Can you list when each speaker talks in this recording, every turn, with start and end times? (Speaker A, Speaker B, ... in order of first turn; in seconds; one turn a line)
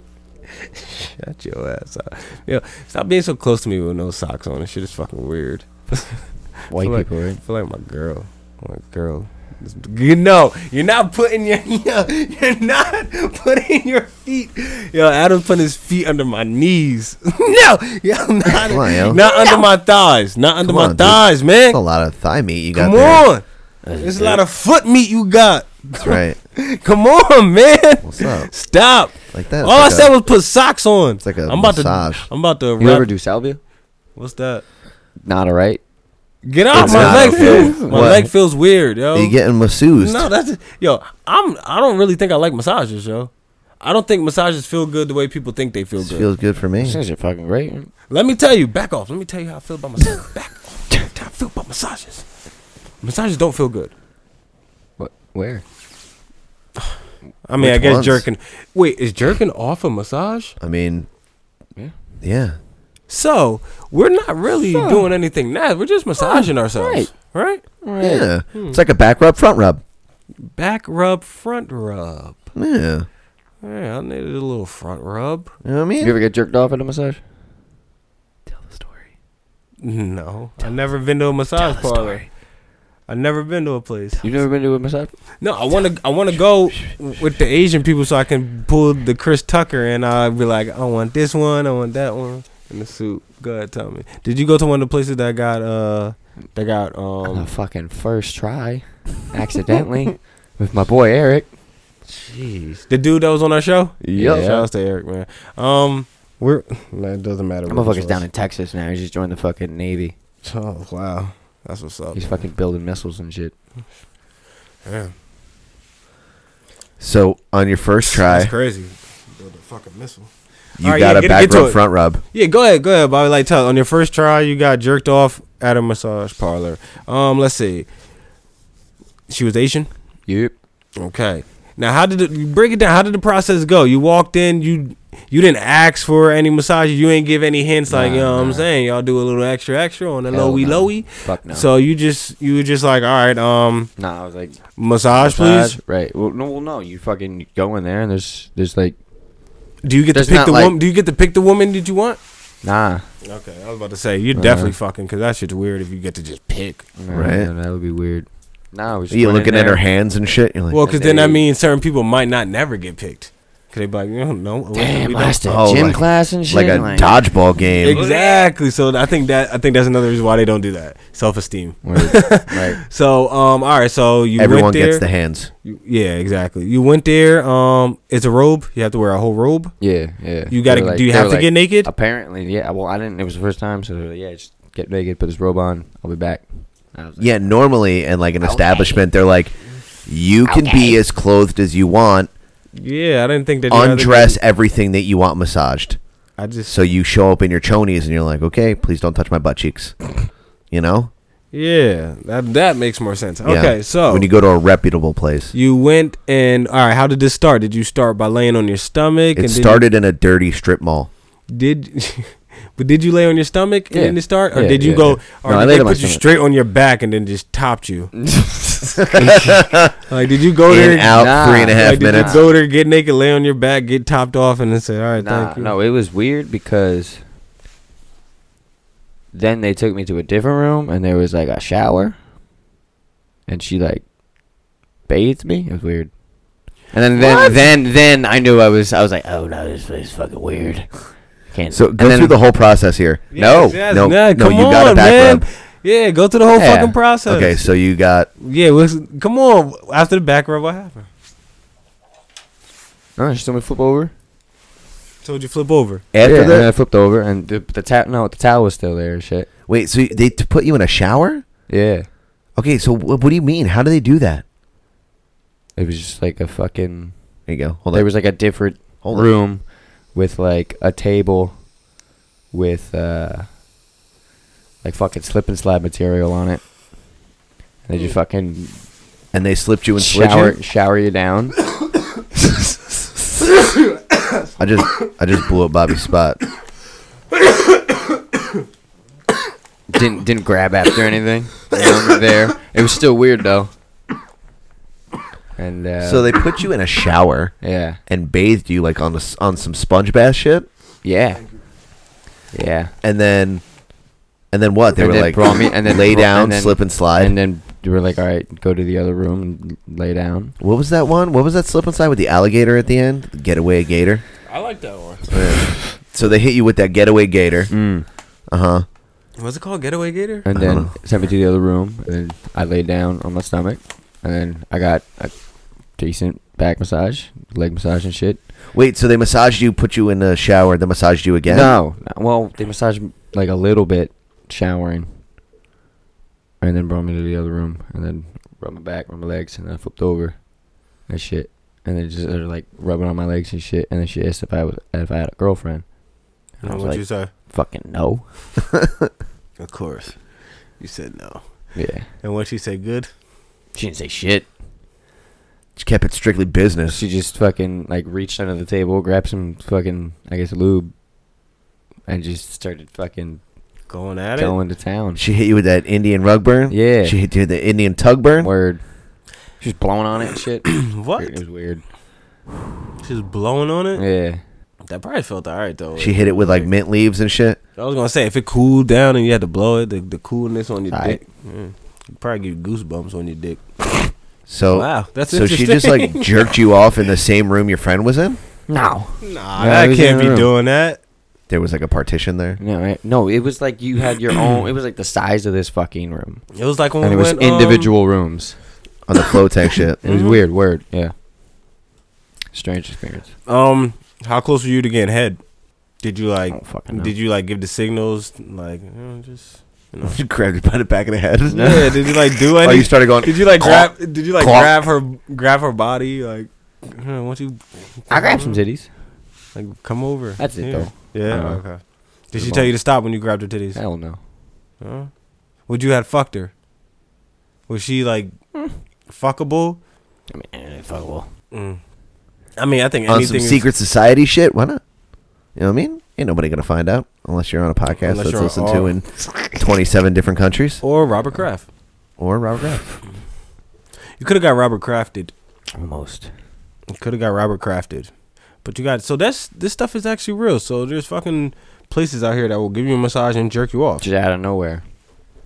Speaker A: 0.6-21.8
Speaker B: 6.7-7.4
Speaker C: 18.5-19.2
Speaker C: 20.6-23.3
Speaker A: 22.7-23.4
Speaker B: 23.8-24.4
Speaker A: 24.0-33.1
Speaker C: 26.0-26.4
Speaker C: 28.0-28.5
Speaker C: 29.3-30.1
Speaker C: 31.2-32.2
Speaker B: 32.8-33.6
Speaker A: 34.2-34.6
Speaker B: 35.2-35.8
Speaker A: 36.4-39.4
Speaker B: 36.7-38.2
Speaker C: 36.7-38.3
Speaker C: 39.1-40.3
Speaker A: 40.0-46.3
Speaker C: 46.0-47.0
Speaker B: 46.8-47.9
Speaker A: 48.1-52.2
Speaker A: 53.0-53.9
Speaker B: 55.0-55.6
Speaker A: 57.5-60.5
Speaker C: 57.6-58.2
Speaker C: 60.6-61.1
Speaker C: 62.2-62.6
Speaker A: 63.1-67.6
Speaker B: 64.7-65.0
Speaker B: 66.2-67.1
Speaker B: 67.8-68.3
Speaker C: 68.0-69.8
Speaker A: 68.5-68.8
Speaker A: 70.5-72.4
Speaker C: 72.5-73.0
Speaker A: 73.6-75.5
Speaker C: 75.6-76.1
Speaker B: 76.0-77.2
Speaker C: 78.5-78.9
Speaker A: 79.8-82.2
Speaker C: 81.6-82.2
Speaker A: 83.1-84.2
Speaker B: 84.2-85.1
Speaker A: 85.4-97.5
Speaker B: 97.2-101.5
Speaker A: 102.1-108.2
Speaker C: 104.0-104.5
Speaker B: 104.1-104.7
Speaker B: 107.7-110.1
Speaker A: 110.4-112.4
Speaker B: 112.1-113.5
Speaker A: 114.8-115.1
Speaker C: 117.0-118.5
Speaker A: 118.1-120.3
Speaker C: 120.8-122.2
Speaker A: 120.8-127.9
Speaker A: 129.3-129.9
Speaker B: 130.3-130.5
Speaker A: 131.0-143.9
Speaker B: 137.9-138.7
Speaker B: 140.3-141.7
Speaker B: 144.0-148.9
Speaker A: 144.8-145.8
Speaker A: 149.8-152.2
Speaker B: 150.1-150.7
Speaker B: 152.6-153.1
Speaker A: 153.2-156.9
Speaker B: 154.3-154.7
Speaker B: 157.0-159.8
Speaker C: 157.1-157.5
Speaker C: 159.1-160.8
Speaker A: 160.7-165.4
Speaker B: 160.8-161.4
Speaker B: 164.7-167.3
Speaker C: 165.4-168.0
Speaker A: 167.8-175.1
Speaker B: 167.9-168.5
Speaker B: 171.8-172.8
Speaker C: 174.4-175.5
Speaker A: 175.6-179.8
Speaker B: 179.8-187.6
Speaker A: 180.5-181.9
Speaker C: 187.2-192.3
Speaker B: 188.4-189.0
Speaker B: 190.4-191.0
Speaker A: 192.7-194.4
Speaker C: 193.7-196.0
Speaker A: 196.4-196.8
Speaker C: 196.7-200.1
Speaker C: 200.7-201.1
Speaker A: 201.5-204.3
Speaker C: 203.4-205.5
Speaker A: 205.5-209.9
Speaker C: 209.3-211.1
Speaker A: 211.5-218.1
Speaker B: 213.9-216.2
Speaker B: 218.1-219.3
Speaker A: 219.1-225.7
Speaker C: 219.2-219.9
Speaker C: 220.7-222.4
Speaker B: 221.1-222.5
Speaker B: 225.2-227.2
Speaker B: 229.3-232.2
Speaker B: 233.5-234.0
Speaker B: 235.1-236.1
Speaker B: 236.9-242.3
Speaker A: 237.2-237.6
Speaker C: 241.7-245.4
Speaker A: 243.3-247.6
Speaker B: 246.5-246.9
Speaker C: 247.3-248.3
Speaker A: 248.4-251.1
Speaker B: 253.2-254.1
Speaker A: 255.2-256.0
Speaker C: 256.1-256.7
Speaker B: 256.2-259.5
Speaker C: 259.7-261.4
Speaker B: 261.7-262.1
Speaker C: 262.6-264.4
Speaker B: 265.8-271.7
Speaker C: 267.5-268.3
Speaker C: 269.0-269.3
Speaker B: 272.5-273.5
Speaker B: 274.8-276.7
Speaker B: 277.9-278.8
Speaker C: 279.3-280.6
Speaker B: 280.0-281.7
Speaker C: 284.6-286.4
Speaker B: 289.9-293.7
Speaker B: 295.6-296.3
Speaker C: 296.0-297.6
Speaker B: 297.6-298.0
Speaker C: 298.1-300.7
Speaker B: 301.0-301.4
Speaker B: 302.5-302.9
Speaker C: 303.0-303.6
Speaker C: 304.5-307.4
Speaker B: 304.9-310.5
Speaker C: 310.6-314.2
Speaker A: 314.5-315.4
Speaker C: 315.3-317.7
Speaker B: 317.7-318.1
Speaker C: 318.5-318.9
Speaker A: 319.4-320.5
Speaker B: 320.4-325.3
Speaker C: 320.5-320.9
Speaker B: 325.9-328.4
Speaker C: 328.7-331.8
Speaker B: 331.5-335.1
Speaker B: 336.6-340.4
Speaker B: 341.1-345.9
Speaker B: 346.5-348.3
Speaker A: 346.6-347.3
Speaker C: 348.8-349.1
Speaker A: 349.6-350.2
Speaker A: 350.8-351.7
Speaker B: 351.7-352.1
Speaker A: 352.2-353.1
Speaker B: 353.7-354.5
Speaker C: 355.8-357.0
Speaker B: 356.9-360.9
Speaker B: 362.1-363.4
Speaker A: 363.9-364.5
Speaker B: 364.4-365.2
Speaker C: 365.1-368.5
Speaker B: 366.7-367.1
Speaker B: 368.4-368.8
Speaker B: 369.6-371.8
Speaker A: 370.7-371.4
Speaker A: 373.0-374.0
Speaker B: 373.9-374.4
Speaker A: 374.8-376.7
Speaker C: 376.0-377.6
Speaker A: 377.8-383.6
Speaker B: 380.9-381.2
Speaker C: 384.5-388.4
Speaker A: 384.7-386.4
Speaker B: 388.7-390.5
Speaker A: 389.2-391.0
Speaker C: 391.5-392.6
Speaker B: 392.6-398.6
Speaker A: 396.5-397.9
Speaker C: 399.1-400.0
Speaker B: 400.0-401.1
Speaker A: 400.0-400.4
Speaker B: 402.5-403.3
Speaker A: 403.4-405.4
Speaker A: 406.0-410.2
Speaker B: 406.5-407.1
Speaker C: 410.0-414.7
Speaker B: 411.5-411.9
Speaker A: 411.5-418.6
Speaker B: 418.1-418.9
Speaker A: 419.5-423.8
Speaker B: 420.4-421.6
Speaker B: 422.2-422.7
Speaker B: 423.7-424.2
Speaker A: 424.8-425.1
Speaker A: 425.7-426.5
Speaker A: 427.7-428.3
Speaker A: 429.1-429.8
Speaker B: 430.3-431.3
Speaker A: 431.5-431.8
Speaker A: 432.6-433.7
Speaker C: 433.1-434.8
Speaker C: 435.5-440.8
Speaker A: 438.0-438.9
Speaker A: 440.8-441.7
Speaker C: 442.2-443.0
Speaker A: 444.2-445.3
Speaker B: 445.7-446.3
Speaker A: 446.9-454.0
Speaker B: 454.0-454.8